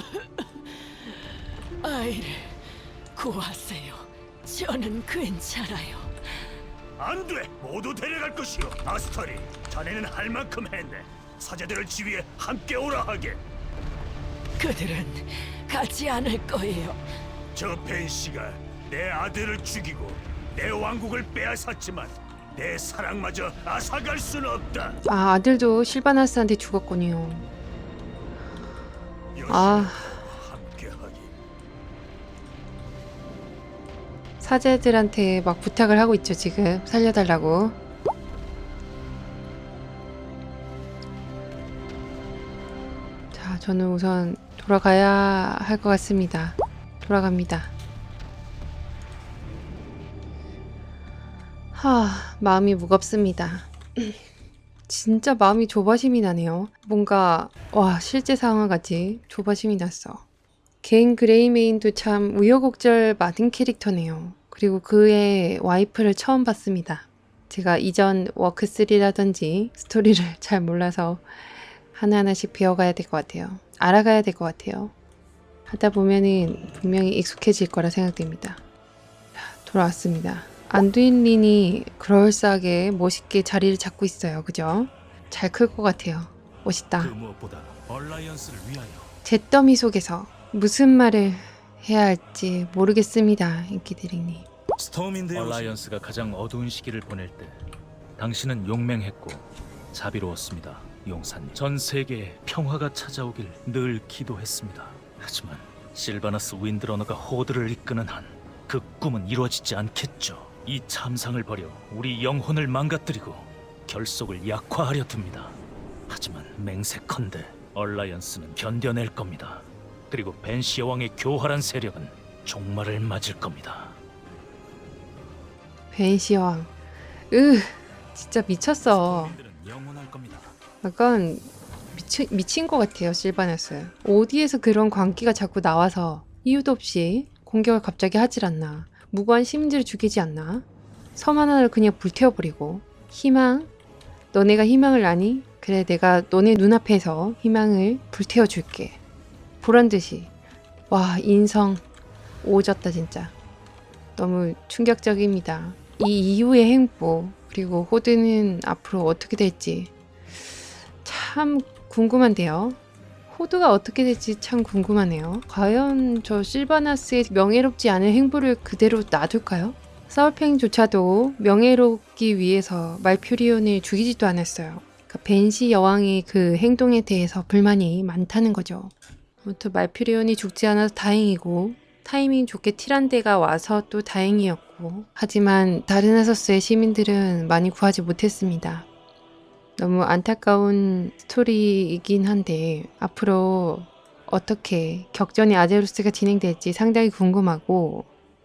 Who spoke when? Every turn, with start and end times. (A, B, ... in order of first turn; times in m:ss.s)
0:00.1-0:01.3 A
0:01.8-0:06.1 A
0:07.2-0:09.7 B
0:10.4-0:11.0 B
0:11.6-0:13.3 B
0:14.6-0:17.0 A
0:17.6-0:24.9 B
0:25.0-0:27.5 C
0:29.4-0:30.3 C
0:29.5-0:31.3 B
0:34.4-0:37.8 C
0:43.3-0:47.7 C
0:51.7-0:54.2 C
0:54.9-1:00.2 C
1:00.8-1:14.9 C
1:15.7-1:18.6 C
1:19.4-1:27.1 C
1:27.0-1:29.1 D
1:29.2-1:34.4 C
1:34.8-1:37.6 D
1:38.2-1:55.6 D
1:56.1-2:04.0 D
2:05.9-2:06.7 C
2:07.3-2:09.4 C
2:08.8-2:10.5 D
2:10.8-2:20.6 C
2:21.2-2:23.7 C
2:24.3-2:29.0 C
2:29.6-2:30.3 C
2:30.9-2:31.8 C
2:32.4-2:33.3 C
2:34.2-2:39.9 C
2:41.0-2:42.8 C
2:43.3-3:08.8 C
3:09.8-3:18.0 C